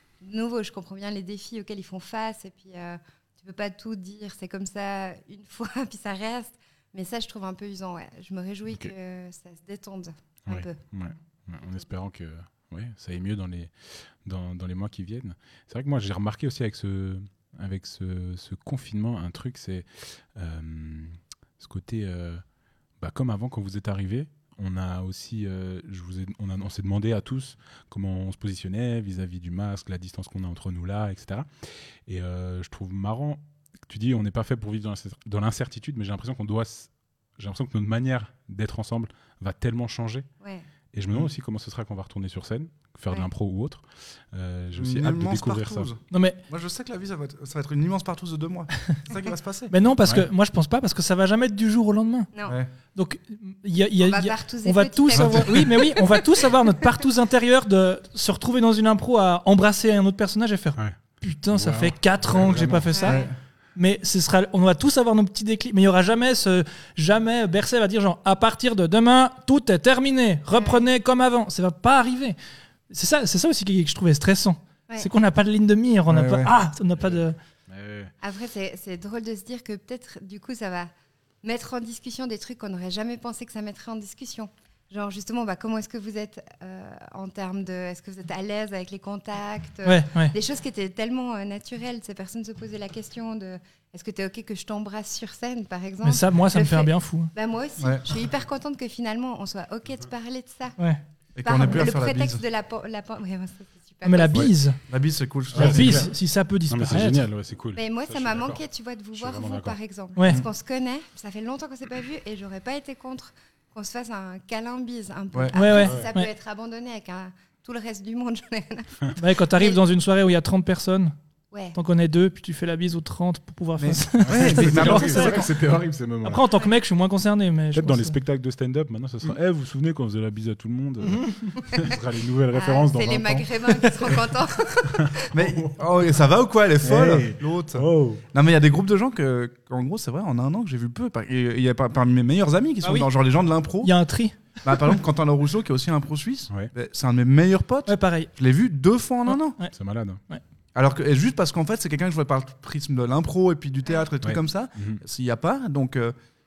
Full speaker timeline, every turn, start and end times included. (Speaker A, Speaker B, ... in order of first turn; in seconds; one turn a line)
Speaker A: 0.2-10.8
Speaker B: 10.4-22.4
Speaker B: 23.0-31.5
Speaker B: 32.0-40.3
Speaker A: 40.4-40.7
Speaker B: 40.9-45.9
Speaker C: 44.8-49.7
Speaker D: 46.1-46.4
Speaker D: 49.7-52.3
Speaker A: 52.3-52.6
Speaker C: 52.4-52.7
Speaker D: 52.9-72.3
Speaker A: 54.0-56.4
Speaker B: 55.1-55.7
Speaker B: 61.5-62.9
Speaker A: 62.9-63.3
Speaker C: 63.0-63.3
Speaker A: 70.5-70.8
Speaker D: 72.9-77.3
Speaker C: 76.1-76.5
Speaker B: 77.0-78.1
Speaker A: 78.2-80.9
Speaker A: 81.4-100.8
Speaker D: 89.8-90.3
Speaker D: 96.0-97.3
Speaker C: 97.8-98.0
Speaker C: 101.4-102.4
Speaker A: 101.4-104.5
Speaker D: 104.0-104.8
Speaker C: 104.9-106.1
Speaker B: 105.5-106.1
Speaker D: 105.5-107.2
Speaker B: 106.7-108.6
Speaker A: 107.7-119.8
Speaker B: 109.1-109.8
Speaker D: 110.2-110.4
Speaker D: 115.5-116.3
Speaker B: 115.8-116.0
Speaker D: 119.2-121.1
Speaker D: 121.7-125.4
Speaker C: 123.8-125.5
Speaker B: 124.2-126.4
Speaker D: 126.2-128.2
Speaker B: 127.7-133.5
Speaker D: 131.0-131.5
Speaker A: 131.6-132.0
Speaker A: 132.5-135.3
Speaker B: 134.9-135.8
Speaker C: 135.3-143.9
Speaker B: 136.8-138.2
Speaker D: 142.8-143.1
Speaker D: 143.8-145.0
Speaker C: 144.6-149.6
Speaker D: 147.9-148.3
Speaker D: 149.3-149.7
Speaker B: 149.7-150.2
Speaker C: 150.7-156.1
Speaker B: 154.2-155.0